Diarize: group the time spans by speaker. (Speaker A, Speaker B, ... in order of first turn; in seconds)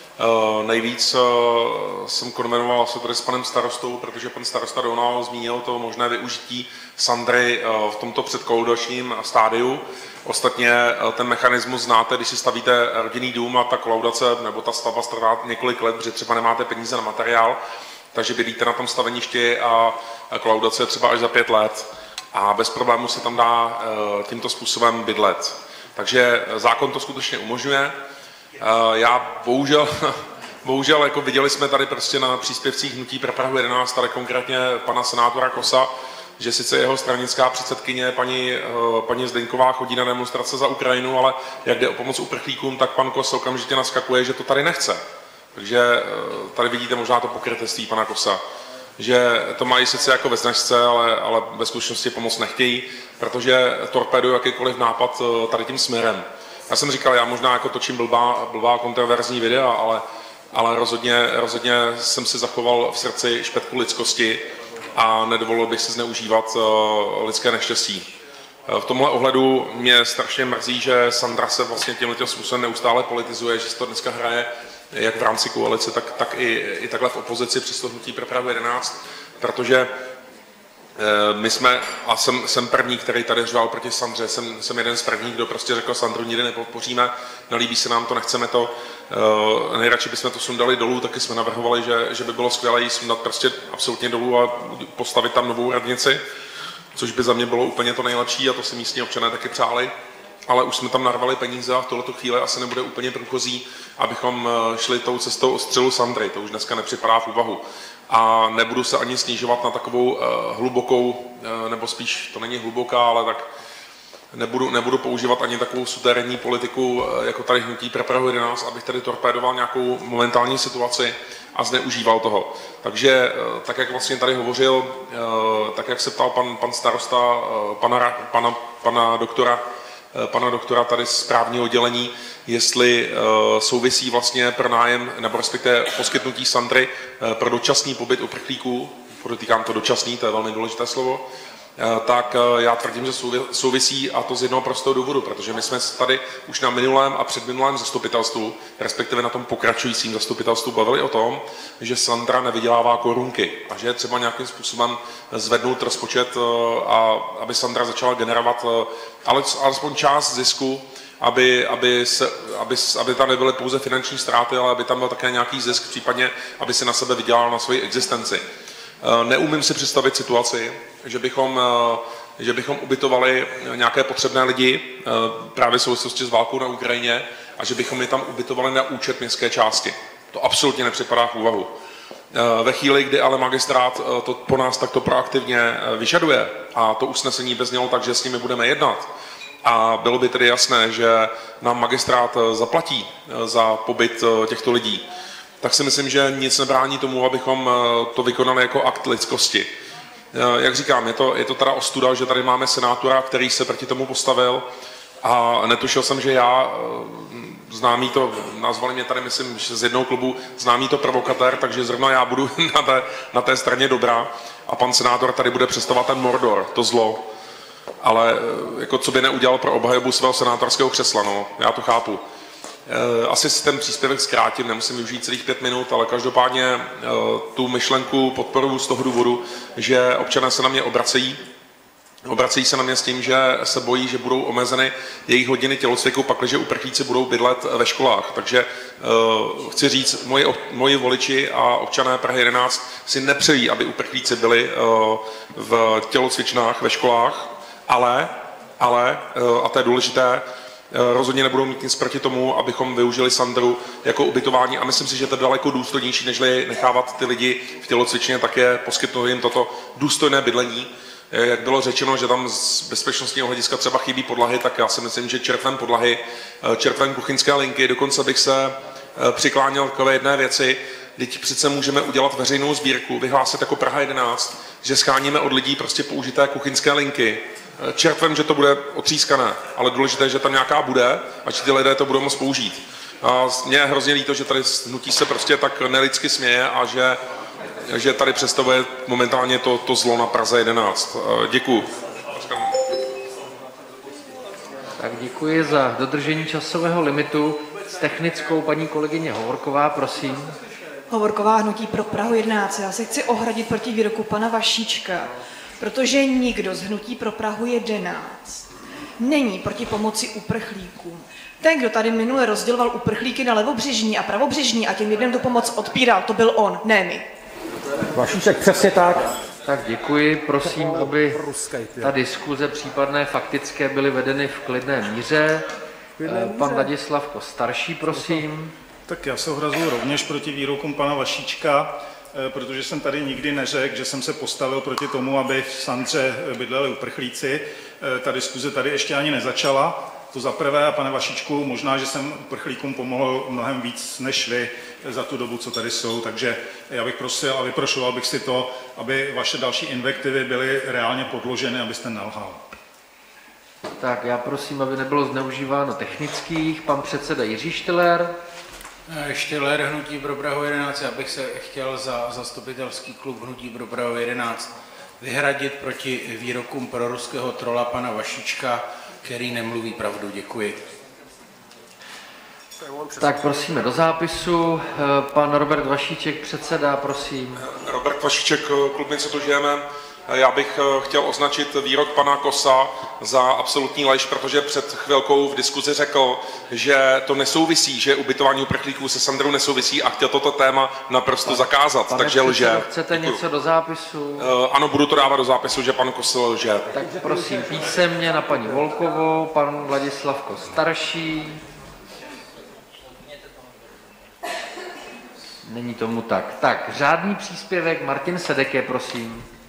Speaker A: 0.2-17.6, 18.1-27.9, 28.6-45.0, 45.5-48.4, 49.0-68.1, 68.7-79.9, 81.0-96.2, 97.0-99.9, 100.5-113.5, 114.3-129.6, 130.1-141.2, 141.8-168.4, 169.0-181.7, 182.3-189.1, 189.6-195.1, 195.6-199.7, 200.3-204.7, 205.2-217.2, 218.0-222.2, 222.9-231.4, 232.2-287.2, 287.9-292.7, 377.6-393.4, 394.4-396.9
Speaker B: 295.0-300.5, 319.7-321.5, 322.0-325.7, 326.2-328.7, 354.0-358.4, 373.2-377.6, 391.5-394.5, 396.9-401.6, 405.6-409.5
Speaker C: 301.1-308.6, 309.2-317.3
Speaker D: 318.0-319.3, 320.6-322.2, 326.2-326.9, 328.1-328.4, 372.8-373.4, 397.1-398.8
Speaker E: 329.1-352.6
Speaker F: 359.1-370.9